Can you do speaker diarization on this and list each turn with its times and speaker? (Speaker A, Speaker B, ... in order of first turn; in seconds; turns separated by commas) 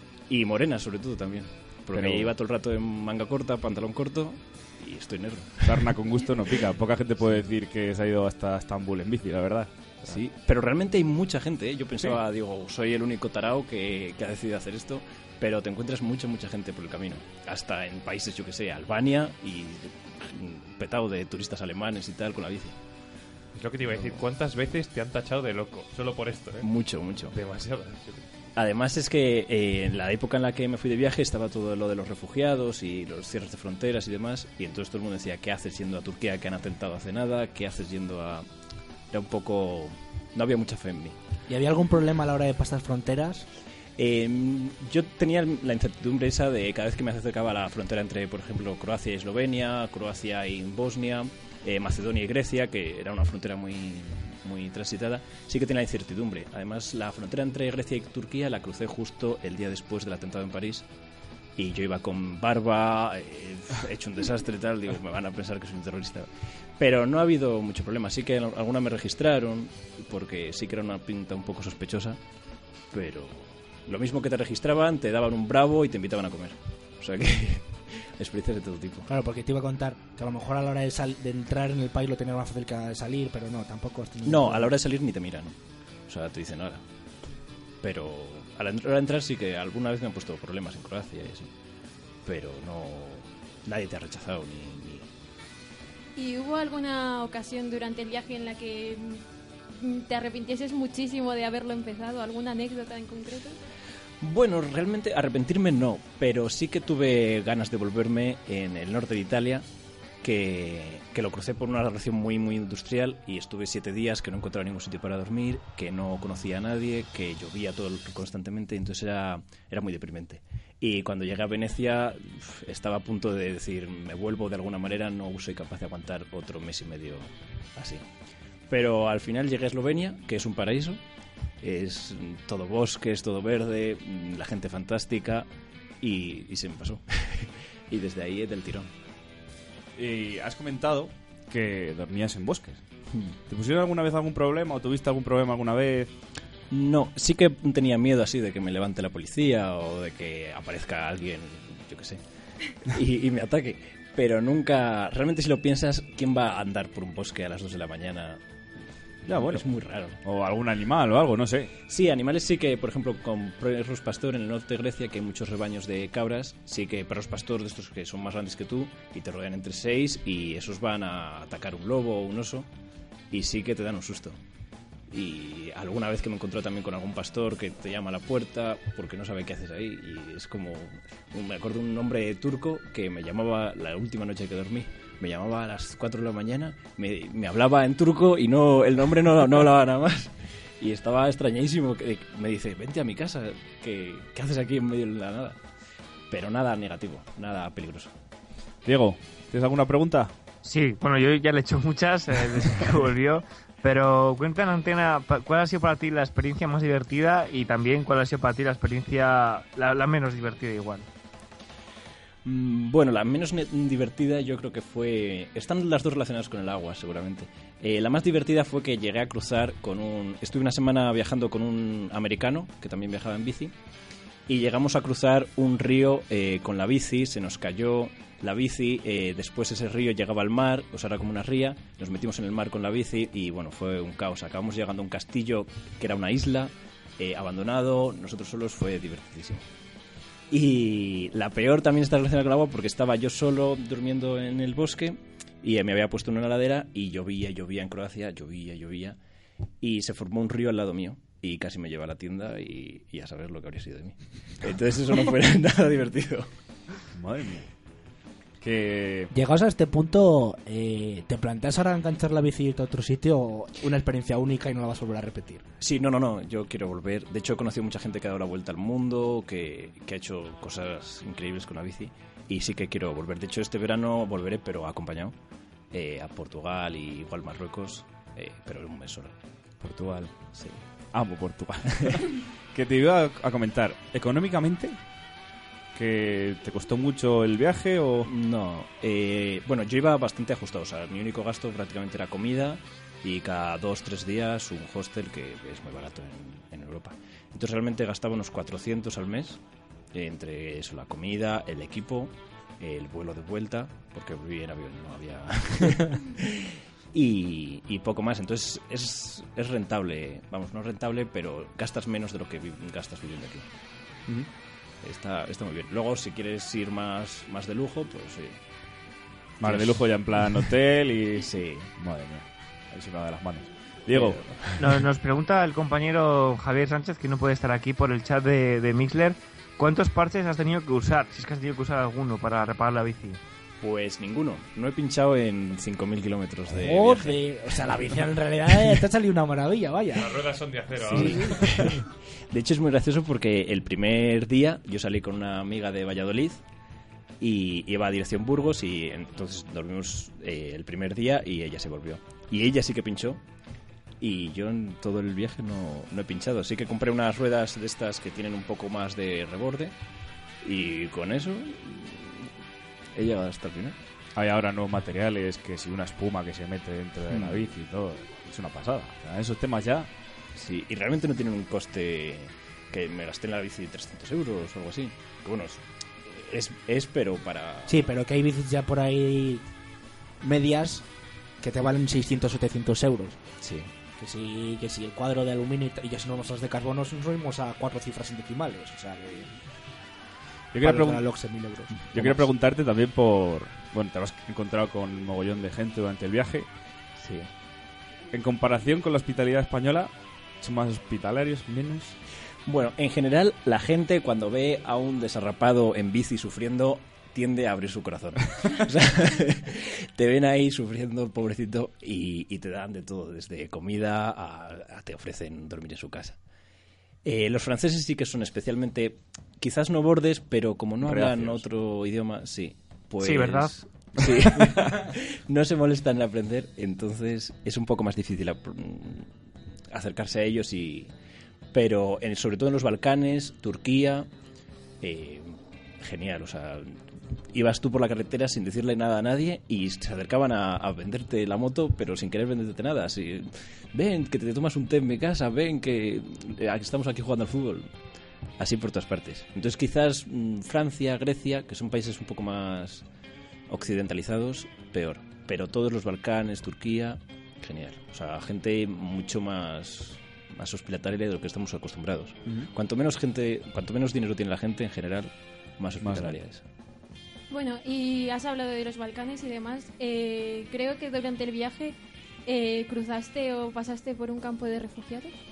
Speaker A: 0.3-5.8, Speaker B: 1.9-2.3, Speaker B: 5.6-10.2, Speaker A: 10.0-22.8, Speaker C: 23.5-26.6, Speaker A: 26.6-27.3, Speaker C: 27.3-28.2, Speaker A: 28.6-38.5, Speaker A: 39.1-41.2, Speaker D: 41.5-43.5, Speaker A: 44.0-60.9, Speaker A: 61.6-72.2, Speaker A: 72.9-79.1, Speaker D: 79.1-84.7, Speaker A: 84.2-85.5, Speaker A: 86.1-86.8, Speaker A: 87.8-91.5, Speaker A: 92.2-95.1, Speaker E: 96.2-103.6, Speaker A: 104.2-109.6, Speaker A: 110.2-128.0, Speaker A: 128.7-131.0, Speaker A: 131.6-135.5, Speaker A: 136.0-138.9, Speaker B: 140.0-142.8, Speaker B: 143.5-146.1, Speaker A: 146.7-152.2, Speaker A: 152.8-158.4, Speaker B: 159.2-159.7, Speaker A: 159.3-160.2, Speaker B: 160.2-161.7, Speaker A: 161.9-172.7, Speaker A: 173.3-174.4, Speaker A: 175.1-195.6, Speaker A: 196.3-198.1, Speaker B: 198.8-200.3, Speaker F: 200.6-211.1, Speaker A: 212.4-223.7, Speaker A: 224.5-239.7, Speaker A: 240.5-249.2, Speaker A: 249.8-256.5, Speaker B: 257.1-257.7, Speaker B: 258.6-259.3, Speaker D: 259.3-265.6, Speaker A: 265.8-275.4, Speaker A: 275.9-279.4, Speaker B: 279.8-280.3, Speaker A: 280.5-280.8, Speaker B: 281.1-285.0, Speaker B: 285.9-288.3, Speaker A: 288.2-299.6, Speaker A: 300.1-313.7, Speaker A: 315.0-318.6, Speaker B: 319.6-324.4, Speaker A: 319.6-320.0, Speaker A: 321.4-321.9, Speaker A: 324.1-324.6, Speaker F: 324.8-333.4, Speaker A: 333.8-337.4, Speaker D: 336.7-340.3, Speaker C: 340.1-341.6, Speaker A: 340.9-346.6, Speaker D: 341.1-341.7, Speaker A: 347.4-353.4, Speaker A: 354.2-359.9, Speaker A: 360.6-362.5, Speaker A: 363.1-363.9, Speaker B: 364.4-370.1, Speaker A: 367.3-367.6, Speaker A: 370.6-378.1, Speaker D: 377.9-379.6, Speaker D: 380.4-381.0, Speaker D: 381.6-383.4, Speaker A: 383.6-383.9, Speaker D: 384.2-389.5, Speaker B: 390.7-391.2, Speaker D: 390.8-392.4, Speaker B: 392.1-396.7, Speaker A: 397.2-397.5, Speaker B: 398.3-402.1, Speaker A: 402.6-416.4, Speaker A: 417.2-429.3, Speaker B: 421.0-421.6, Speaker F: 423.2-423.7, Speaker B: 424.2-424.7, Speaker A: 429.9-431.1, Speaker A: 431.7-434.3, Speaker A: 435.0-437.0, Speaker A: 437.5-447.9, Speaker A: 448.6-453.0, Speaker A: 453.7-466.6, Speaker B: 466.0-466.4, Speaker E: 467.5-475.4